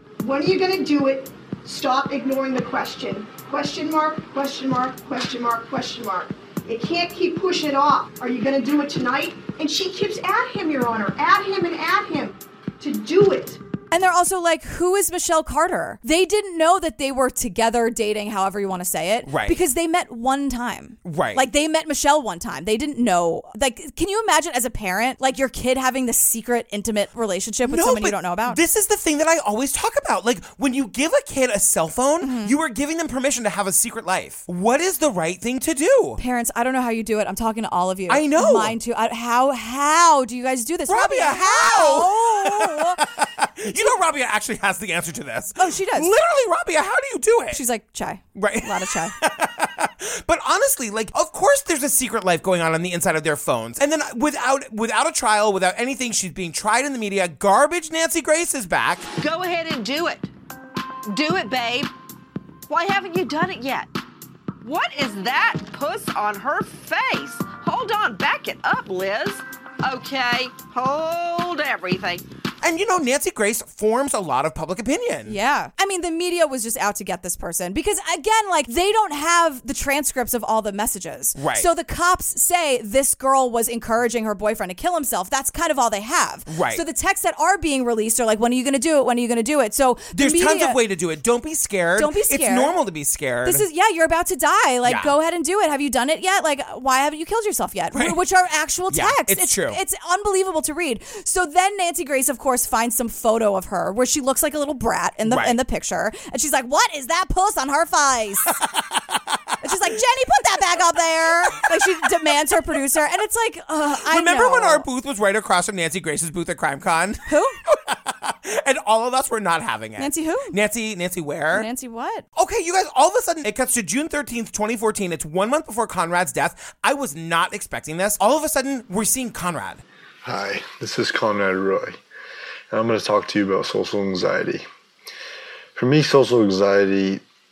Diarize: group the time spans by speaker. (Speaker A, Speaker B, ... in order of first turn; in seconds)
Speaker A: 0.2-13.6
Speaker B: 13.9-28.6, 32.2-32.5, 36.2-43.0, 45.6-46.1, 47.5-49.1, 75.3-90.8, 92.0-92.8, 93.4-108.5, 109.6-114.8, 117.3-117.6, 120.0-120.5, 121.5-122.2
Speaker C: 19.2-19.6, 21.0-21.4, 27.6-36.2, 38.1-38.7, 40.9-47.6, 48.4-59.1, 72.6-75.3, 81.3-81.7, 86.5-86.8, 90.1-93.6, 94.8-95.1, 98.9-99.8, 105.2-105.6, 108.6-109.2, 114.0-121.7, 122.3-129.8
Speaker D: 59.2-60.3, 61.1-61.9, 62.7-63.9, 64.6-72.2
Speaker E: 130.2-132.0, 132.7-134.6, 135.8-137.2